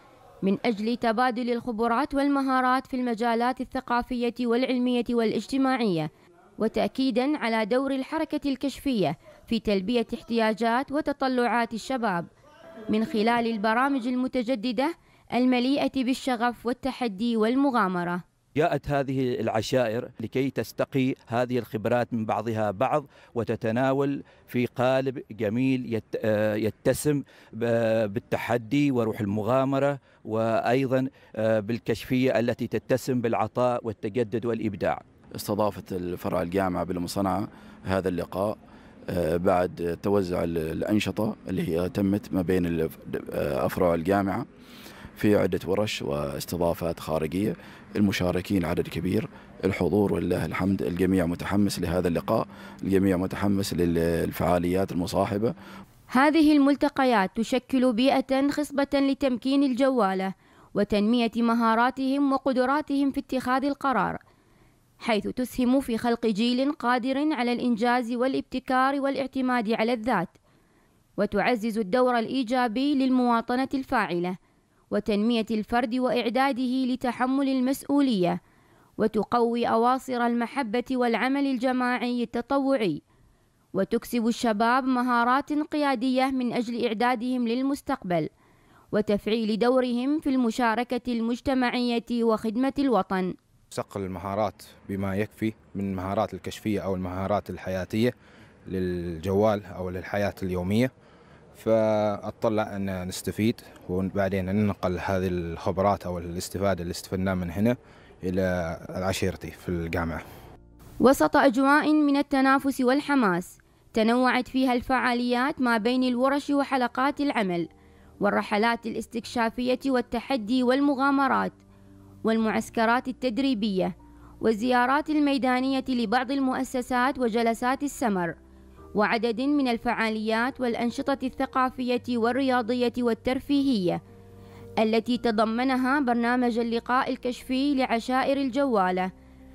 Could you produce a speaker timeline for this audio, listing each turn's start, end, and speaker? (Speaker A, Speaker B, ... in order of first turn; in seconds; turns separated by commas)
Speaker A: 0.4-12.3, Speaker A: 12.9-18.2, Speaker B: 18.6-35.0, Speaker C: 35.4-38.6, Speaker C: 39.1-44.5, Speaker C: 45.2-55.5, Speaker A: 56.1-64.2, Speaker A: 65.0-70.3, Speaker A: 71.2-74.4, Speaker A: 74.9-78.4, Speaker A: 79.0-83.0, Speaker A: 83.7-88.3, Speaker A: 88.9-93.3, Speaker D: 93.7-98.1, Speaker D: 98.7-100.9, Speaker D: 101.6-110.2, Speaker A: 111.0-117.7, Speaker A: 118.2-121.5, Speaker A: 122.2-128.3, Speaker A: 128.9-134.0, Speaker A: 134.8-139.1